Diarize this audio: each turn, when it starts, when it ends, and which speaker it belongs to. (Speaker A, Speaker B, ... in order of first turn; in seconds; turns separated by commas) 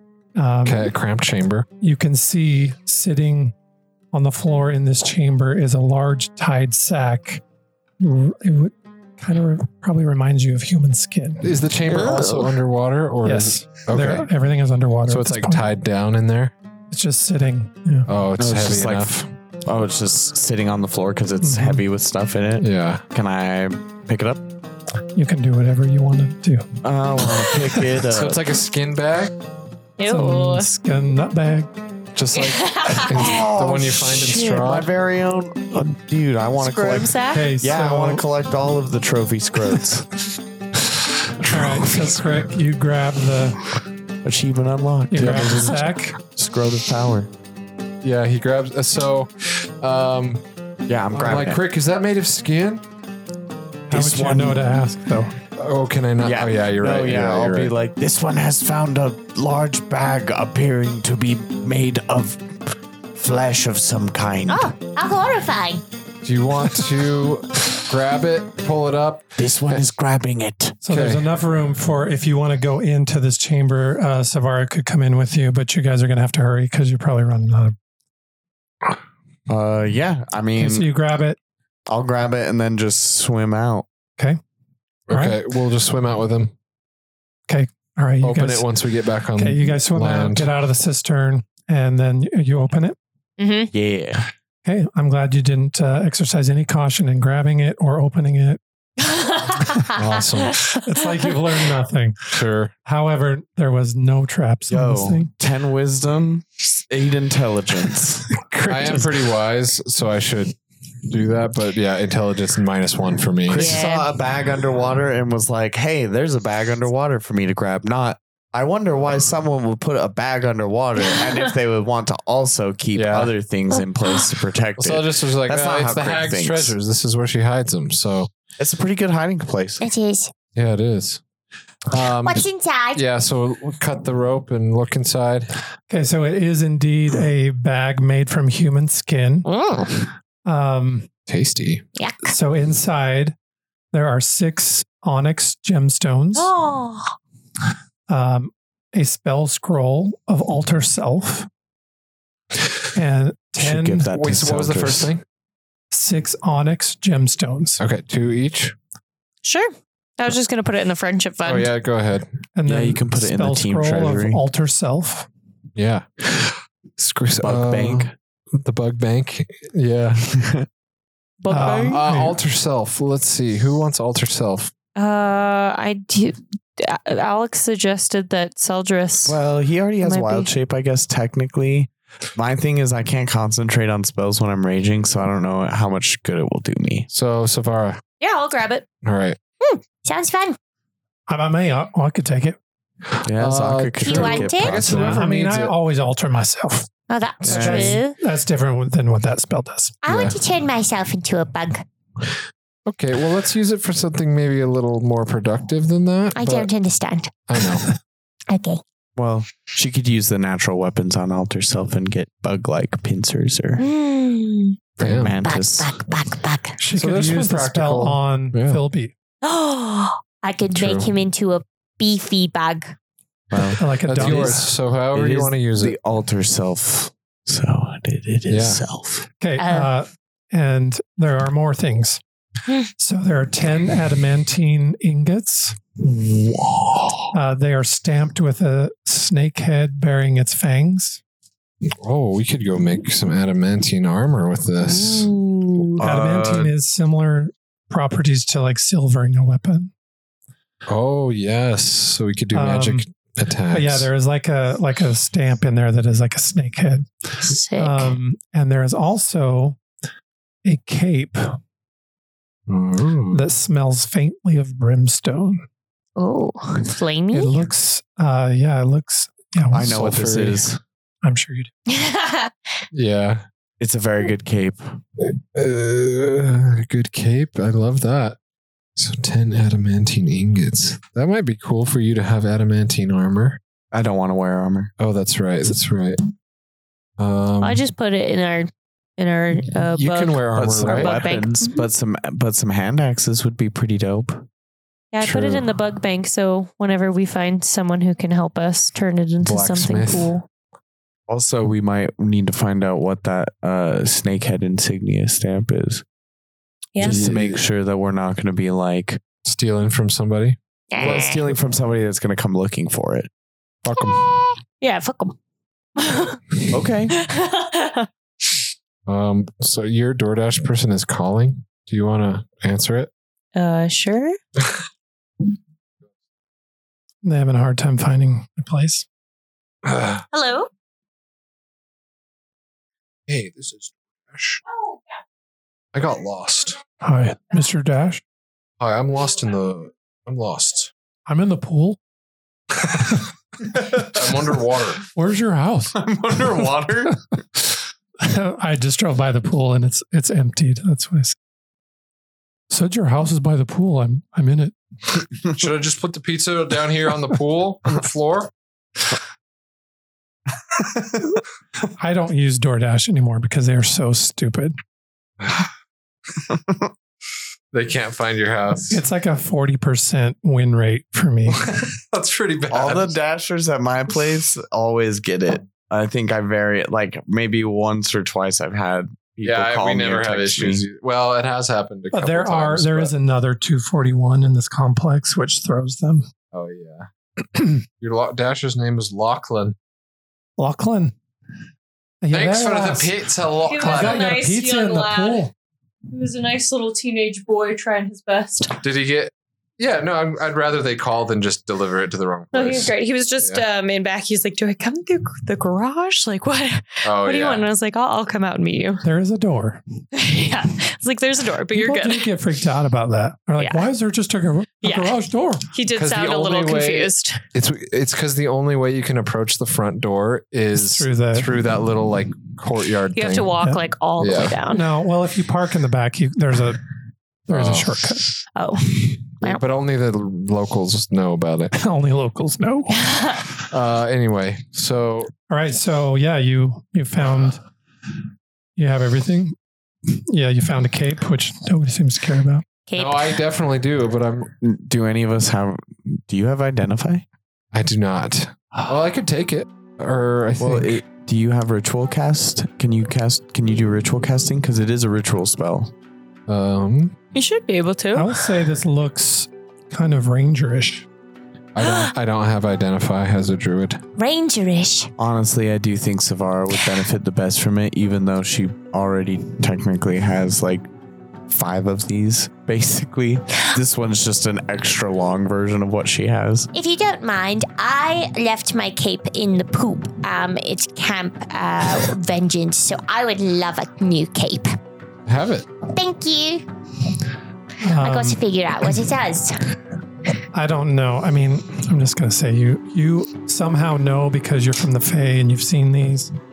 Speaker A: 0.3-0.9, Speaker B: 0.6-1.7, Speaker A: 1.8-3.5, Speaker A: 4.1-7.4, Speaker A: 8.0-11.5, Speaker B: 11.4-14.3, Speaker C: 12.0-12.5, Speaker A: 13.2-15.7, Speaker B: 15.1-16.5, Speaker A: 16.9-18.1, Speaker B: 18.1-19.3, Speaker D: 18.4-24.4, Speaker A: 21.4-21.8, Speaker B: 22.6-23.0, Speaker A: 25.1-26.7, Speaker D: 26.8-28.4, Speaker B: 28.1-29.3, Speaker E: 30.0-30.7, Speaker A: 30.0-31.7, Speaker B: 32.1-34.9, Speaker E: 32.3-33.4, Speaker D: 33.1-40.1, Speaker E: 36.6-37.5, Speaker A: 37.3-38.2, Speaker B: 41.4-42.2, Speaker A: 41.4-43.6, Speaker D: 44.2-47.3, Speaker A: 45.1-46.2, Speaker B: 45.1-45.8, Speaker B: 48.0-50.4, Speaker D: 50.9-51.6, Speaker B: 51.1-52.8, Speaker D: 53.9-54.6, Speaker A: 53.9-55.3, Speaker B: 55.5-57.7, Speaker D: 56.2-62.5, Speaker D: 63.1-64.7, Speaker C: 64.5-65.8, Speaker B: 66.2-69.9, Speaker D: 69.4-70.8, Speaker A: 70.8-77.8, Speaker B: 70.9-71.2, Speaker D: 79.5-80.9, Speaker A: 80.5-81.4, Speaker D: 81.9-83.8, Speaker B: 85.1-86.5, Speaker A: 85.1-85.4, Speaker A: 87.5-88.7, Speaker B: 88.2-90.5, Speaker A: 89.3-93.0, Speaker E: 93.4-93.7, Speaker D: 93.7-94.3, Speaker A: 94.6-98.6, Speaker E: 99.1-99.7, Speaker B: 99.9-100.7, Speaker A: 100.8-105.3, Speaker B: 102.3-102.7, Speaker D: 104.7-108.4, Speaker A: 108.4-109.1, Speaker B: 108.6-110.5, Speaker B: 111.1-113.8, Speaker D: 113.5-126.7, Speaker E: 113.5-114.1, Speaker B: 122.9-123.3, Speaker B: 124.8-128.3, Speaker D: 128.6-129.9, Speaker C: 129.8-130.3, Speaker B: 130.5-131.2, Speaker B: 131.9-135.5, Speaker C: 132.2-133.0, Speaker A: 135.9-139.5, Speaker C: 139.4-140.1, Speaker A: 140.4-141.1, Speaker B: 141.3-141.8, Speaker C: 142.0-142.3, Speaker A: 142.2-143.3, Speaker A: 143.9-146.5, Speaker C: 146.4-147.1, Speaker A: 148.1-151.5, Speaker A: 152.9-154.1, Speaker D: 153.6-155.1, Speaker B: 154.1-155.2, Speaker A: 155.9-157.8, Speaker B: 157.8-158.8, Speaker E: 159.4-161.7, Speaker B: 161.4-162.3, Speaker A: 162.6-165.3, Speaker D: 162.7-164.4, Speaker B: 165.8-170.3, Speaker D: 167.4-168.1, Speaker D: 170.3-170.7, Speaker E: 171.4-172.0, Speaker A: 171.5-172.4, Speaker B: 171.5-174.7, Speaker E: 174.9-179.4, Speaker D: 179.2-187.1, Speaker E: 180.0-180.5, Speaker B: 187.1-188.0, Speaker E: 188.2-188.8, Speaker B: 189.0-189.4, Speaker C: 189.6-190.6, Speaker A: 191.3-192.6, Speaker B: 193.2-195.8, Speaker D: 193.2-195.2, Speaker C: 194.0-194.8, Speaker A: 194.8-196.9, Speaker C: 197.1-198.2, Speaker B: 197.4-197.9, Speaker A: 197.4-200.0, Speaker D: 197.5-198.0, Speaker C: 200.0-201.8, Speaker B: 200.1-200.3, Speaker B: 202.8-206.7, Speaker C: 206.3-207.5, Speaker B: 207.5-207.8, Speaker C: 208.5-208.8, Speaker D: 209.2-213.8, Speaker C: 213.8-214.8, Speaker D: 215.0-216.0, Speaker B: 215.0-215.4, Speaker C: 215.4-216.8, Speaker A: 216.8-219.1, Speaker B: 216.9-218.8, Speaker C: 219.4-222.9, Speaker B: 220.7-221.1, Speaker D: 223.5-224.6, Speaker A: 223.8-224.7, Speaker B: 224.0-226.0, Speaker D: 225.1-229.3, Speaker B: 228.5-228.8, Speaker A: 229.4-232.2, Speaker C: 229.6-229.9, Speaker A: 233.0-235.8, Speaker D: 236.0-237.3, Speaker A: 237.3-241.2, Speaker B: 241.8-245.3, Speaker E: 244.9-245.9, Speaker D: 246.0-246.7, Speaker A: 246.0-249.9, Speaker B: 250.9-254.1, Speaker A: 252.5-253.0, Speaker A: 253.7-259.8, Speaker C: 257.5-258.1, Speaker A: 260.6-261.6, Speaker B: 262.7-263.4, Speaker A: 263.3-265.6, Speaker C: 266.2-267.6, Speaker A: 267.3-270.0, Speaker D: 269.7-270.8, Speaker B: 269.8-270.7, Speaker A: 271.2-271.7, Speaker C: 271.9-272.5, Speaker B: 272.9-273.4, Speaker D: 273.8-275.0, Speaker B: 275.2-278.4, Speaker B: 278.9-283.6, Speaker D: 283.9-284.9, Speaker B: 285.0-286.2, Speaker B: 287.2-287.8, Speaker E: 287.6-291.7, Speaker B: 289.9-291.2, Speaker D: 290.5-294.4, Speaker E: 295.1-300.4, Speaker B: 295.2-295.6, Speaker B: 299.4-300.3, Speaker D: 301.3-306.0, Speaker E: 306.9-307.2, Speaker B: 307.0-307.6, Speaker D: 307.0-309.2, Speaker B: 309.4-311.3, Speaker C: 310.9-311.4, Speaker D: 311.0-313.3, Speaker B: 313.8-314.2, Speaker C: 314.2-314.5, Speaker E: 314.8-315.4, Speaker E: 316.0-316.4, Speaker D: 316.7-317.1, Speaker E: 317.1-318.1, Speaker B: 319.1-323.1, Speaker E: 323.5-324.4, Speaker A: 327.2-329.1, Speaker B: 329.8-330.2, Speaker C: 330.3-330.7, Speaker B: 333.3-334.6, Speaker B: 335.9-336.8, Speaker A: 337.0-338.2, Speaker B: 338.8-340.9, Speaker A: 341.3-342.0, Speaker B: 342.8-343.2, Speaker B: 343.7-345.0, Speaker A: 345.1-346.0, Speaker D: 345.9-347.3, Speaker A: 348.2-351.4, Speaker A: 352.7-354.7, Speaker B: 355.4-358.5, Speaker A: 362.0-364.7, Speaker B: 365.4-365.7, Speaker B: 367.7-369.0, Speaker A: 368.9-371.6, Speaker B: 371.5-373.2, Speaker D: 372.7-380.8, Speaker B: 379.4-383.1, Speaker A: 382.1-386.3, Speaker B: 386.5-389.8, Speaker A: 390.6-391.1, Speaker A: 392.2-393.2, Speaker B: 392.3-394.3, Speaker E: 393.6-395.5, Speaker A: 393.8-395.5, Speaker E: 396.1-398.8, Speaker B: 398.8-403.6, Speaker E: 402.5-409.0, Speaker B: 407.0-407.7, Speaker A: 409.0-409.8, Speaker E: 410.1-412.3, Speaker A: 411.7-415.7, Speaker E: 413.6-413.9, Speaker E: 414.8-415.1, Speaker E: 415.7-417.4, Speaker B: 415.9-423.5, Speaker A: 420.7-421.5, Speaker E: 423.1-424.9, Speaker B: 424.2-424.6, Speaker A: 424.7-426.8, Speaker B: 427.5-428.0, Speaker A: 427.5-428.3, Speaker E: 428.5-429.6, Speaker B: 429.4-431.7, Speaker A: 431.7-433.3, Speaker B: 433.7-435.3, Speaker A: 435.5-437.6, Speaker A: 438.8-439.6, Speaker A: 440.1-442.6, Speaker B: 442.9-444.5, Speaker D: 444.6-447.2, Speaker B: 447.7-451.0, Speaker D: 450.6-455.9, Speaker B: 456.5-457.1, Speaker E: 457.3-458.4, Speaker A: 458.1-461.1, Speaker B: 461.7-464.0, Speaker C: 464.2-465.1, Speaker D: 465.2-470.9, Speaker D: 471.5-476.7, Speaker C: 476.7-484.8, Speaker B: 485.2-485.7, Speaker C: 485.8-486.6, Speaker A: 487.8-488.4, Speaker C: 487.9-489.8, Speaker A: 490.5-496.3